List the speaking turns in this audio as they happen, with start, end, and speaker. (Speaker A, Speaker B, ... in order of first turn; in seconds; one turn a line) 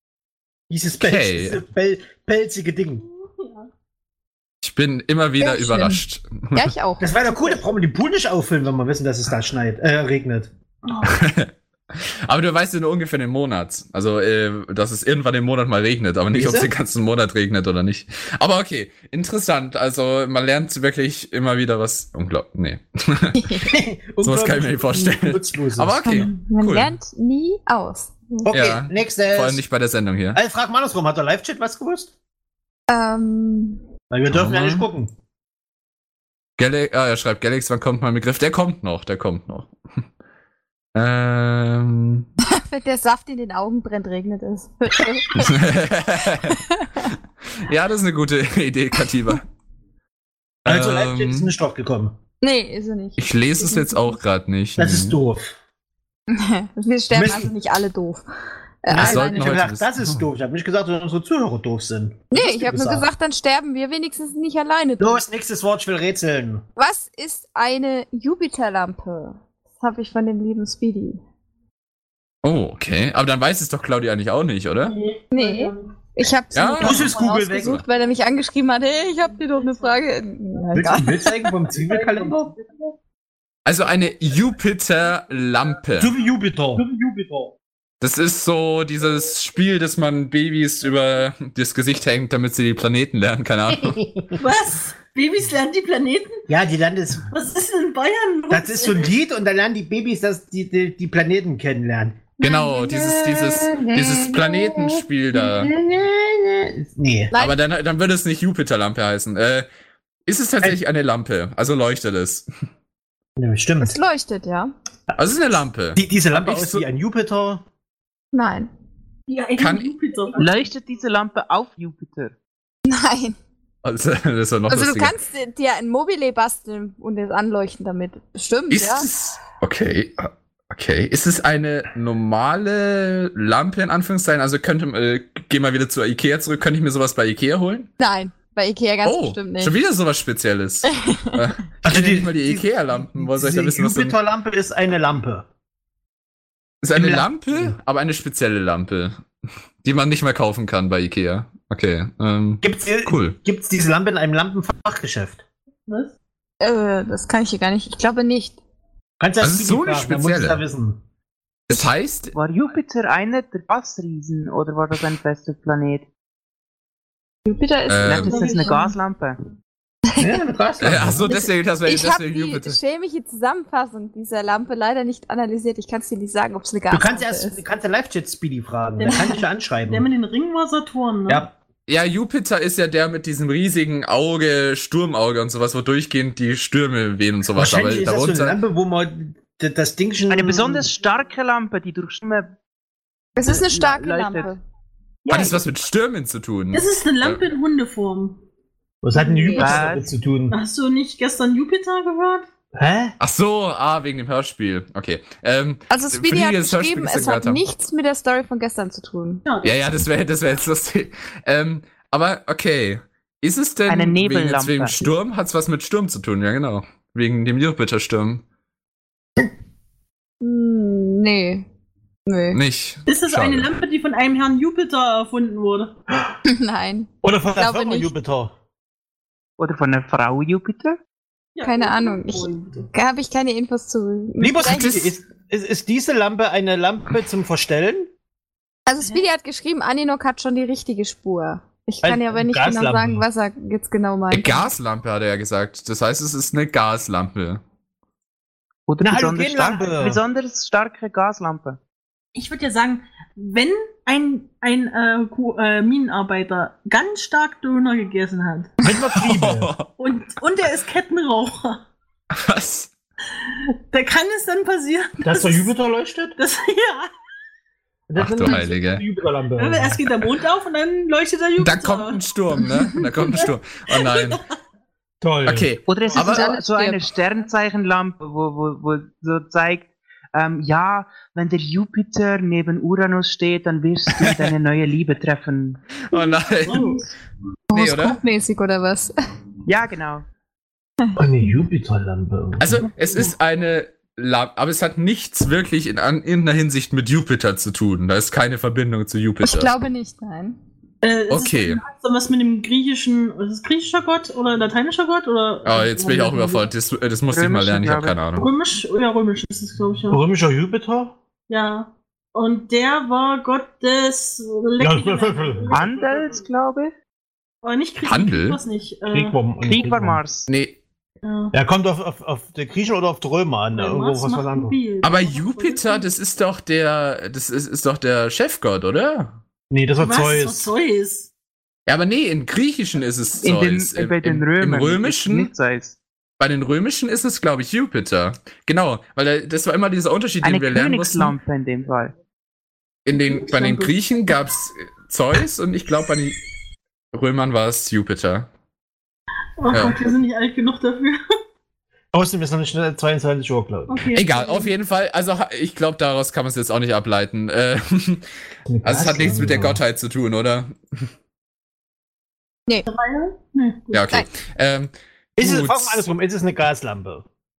Speaker A: 0.7-3.0
Speaker B: 1.0-1.6
Speaker C: 3.2-3.7
Speaker B: 4.6-6.7
Speaker D: 5.4-6.0
Speaker D: 6.5-7.6
Speaker A: 7.0-10.5
Speaker C: 10.8-11.1
Speaker B: 11.0-23.7
Speaker A: 16.3-16.7
Speaker D: 23.4-23.7
Speaker A: 23.7-26.0
Speaker B: 24.2-27.0
Speaker D: 26.0-28.1
Speaker A: 28.4-29.6
Speaker B: 28.5-30.4
Speaker A: 30.3-32.1
Speaker D: 32.9-33.8
Speaker A: 34.1-35.1
Speaker B: 34.3-34.9
Speaker B: 36.6-40.0
Speaker B: 40.9-42.3
Speaker D: 42.5-45.6
Speaker B: 45.3-46.6
Speaker D: 46.4-47.1
Speaker B: 47.6-49.4
Speaker B: 50.6-51.5
Speaker A: 50.7-52.2
Speaker D: 52.4-54.1
Speaker B: 53.2-55.2
Speaker A: 54.8-55.6
Speaker D: 56.3-58.2
Speaker A: 57.1-57.5
Speaker D: 58.8-59.6
Speaker A: 58.9-63.1
Speaker B: 58.9-60.2
Speaker D: 62.3-65.2
Speaker A: 65.0-66.6
Speaker D: 66.8-71.2
Speaker B: 72.4-75.0
Speaker C: 74.8-75.9
Speaker D: 75.3-81.4
Speaker B: 76.5-77.1
Speaker A: 76.8-77.8
Speaker A: 80.7-82.5
Speaker B: 83.7-86.1
Speaker A: 86.0-86.9
Speaker B: 88.0-94.0
Speaker C: 94.4-96.4
Speaker A: 96.5-97.3
Speaker C: 97.3-99.1
Speaker A: 98.5-102.3
Speaker B: 102.4-105.7
Speaker D: 102.4-104.8
Speaker A: 105.3-107.3
Speaker D: 107.3-107.6
Speaker B: 107.3-109.7
Speaker B: 110.3-112.5
Speaker A: 113.4-114.0
Speaker D: 113.8-114.7
Speaker B: 115.2-116.8
Speaker A: 116.0-117.6
Speaker D: 118.3-118.7
Speaker C: 119.3-120.6
Speaker B: 119.6-119.9
Speaker E: 120.4-122.3
Speaker D: 122.9-123.4
Speaker B: 123.8-125.1
Speaker D: 124.7-129.1
Speaker B: 128.7-137.9
Speaker D: 138.0-139.8
Speaker B: 139.0-144.2
Speaker D: 140.8-141.4
Speaker A: 141.8-145.5
Speaker B: 146.8-149.2
Speaker A: 146.9-147.8
Speaker B: 149.8-153.4
Speaker A: 152.6-155.4
Speaker C: 155.9-156.2
Speaker D: 156.6-158.6
Speaker A: 159.2-161.0
Speaker B: 159.4-160.6
Speaker B: 161.7-162.3
Speaker E: 162.3-166.1
Speaker D: 167.5-168.9
Speaker B: 167.9-168.4
Speaker E: 168.1-169.4
Speaker C: 168.3-168.8
Speaker A: 170.2-171.3
Speaker B: 170.8-172.8
Speaker D: 171.8-177.6
Speaker A: 176.9-180.1
Speaker C: 179.0-181.5
Speaker B: 181.9-188.6
Speaker A: 187.6-190.9
Speaker E: 190.3-192.6
Speaker D: 193.4-194.6
Speaker E: 193.4-194.5
Speaker B: 195.3-197.4
Speaker C: 196.7-198.4
Speaker A: 199.0-200.6
Speaker D: 199.2-199.8
Speaker E: 199.6-200.1
Speaker C: 200.5-202.5
Speaker A: 202.7-203.1
Speaker B: 203.2-207.6
Speaker D: 205.9-209.4
Speaker C: 209.5-209.8
Speaker B: 209.6-218.4
Speaker E: 213.9-215.0
Speaker D: 220.4-221.7
Speaker D: 222.3-222.6
Speaker B: 222.5-223.7
Speaker C: 223.1-226.0
Speaker D: 226.4-228.1
Speaker A: 227.2-228.5
Speaker E: 229.6-231.0
Speaker C: 231.6-232.9
Speaker D: 231.6-235.1
Speaker A: 234.4-238.1
Speaker B: 234.7-235.1
Speaker D: 238.9-244.7
Speaker A: 242.0-243.2
Speaker B: 244.3-247.6
Speaker E: 248.9-251.8
Speaker A: 249.0-250.2
Speaker C: 252.3-258.7
Speaker A: 258.8-259.7
Speaker B: 259.1-259.9
Speaker C: 260.0-261.8
Speaker B: 262.3-262.9
Speaker C: 263.5-265.7
Speaker A: 265.2-266.4
Speaker C: 266.4-267.1
Speaker A: 268.1-270.0
Speaker B: 268.2-269.0
Speaker C: 269.6-272.2
Speaker B: 271.6-274.4
Speaker C: 273.4-274.4
Speaker A: 275.2-276.4
Speaker B: 275.5-276.5
Speaker E: 275.9-285.8
Speaker D: 276.1-277.1
Speaker B: 284.1-284.5
Speaker B: 286.1-287.0
Speaker D: 286.2-287.0
Speaker C: 286.7-287.1
Speaker D: 287.7-289.1
Speaker B: 287.7-288.2
Speaker E: 289.7-290.2
Speaker A: 291.2-292.9
Speaker B: 292.6-299.7
Speaker D: 299.4-300.6
Speaker C: 301.0-306.7
Speaker B: 301.3-301.8
Speaker B: 305.6-308.5
Speaker E: 307.3-308.2
Speaker C: 308.4-310.2
Speaker A: 310.1-311.2
Speaker C: 311.5-316.3
Speaker A: 314.8-316.3
Speaker E: 315.7-316.9
Speaker C: 317.6-319.4
Speaker B: 318.0-318.6
Speaker A: 319.1-320.2
Speaker E: 319.7-320.5
Speaker B: 320.5-320.8
Speaker C: 321.2-321.6
Speaker A: 321.5-324.8
Speaker C: 323.7-326.1
Speaker B: 325.0-329.4
Speaker A: 329.7-330.7
Speaker C: 330.0-331.3
Speaker B: 331.9-335.5
Speaker E: 333.4-336.0
Speaker B: 336.4-341.4
Speaker E: 340.4-342.1
Speaker B: 343.1-346.4
Speaker C: 343.2-343.9
Speaker B: 347.1-348.5
Speaker C: 349.6-351.2
Speaker B: 349.7-350.0
Speaker A: 352.1-354.1
Speaker C: 353.9-354.7
Speaker B: 354.1-358.3
Speaker A: 358.7-359.8
Speaker B: 358.8-361.1
Speaker C: 362.9-364.1
Speaker B: 363.9-366.1
Speaker A: 365.4-367.3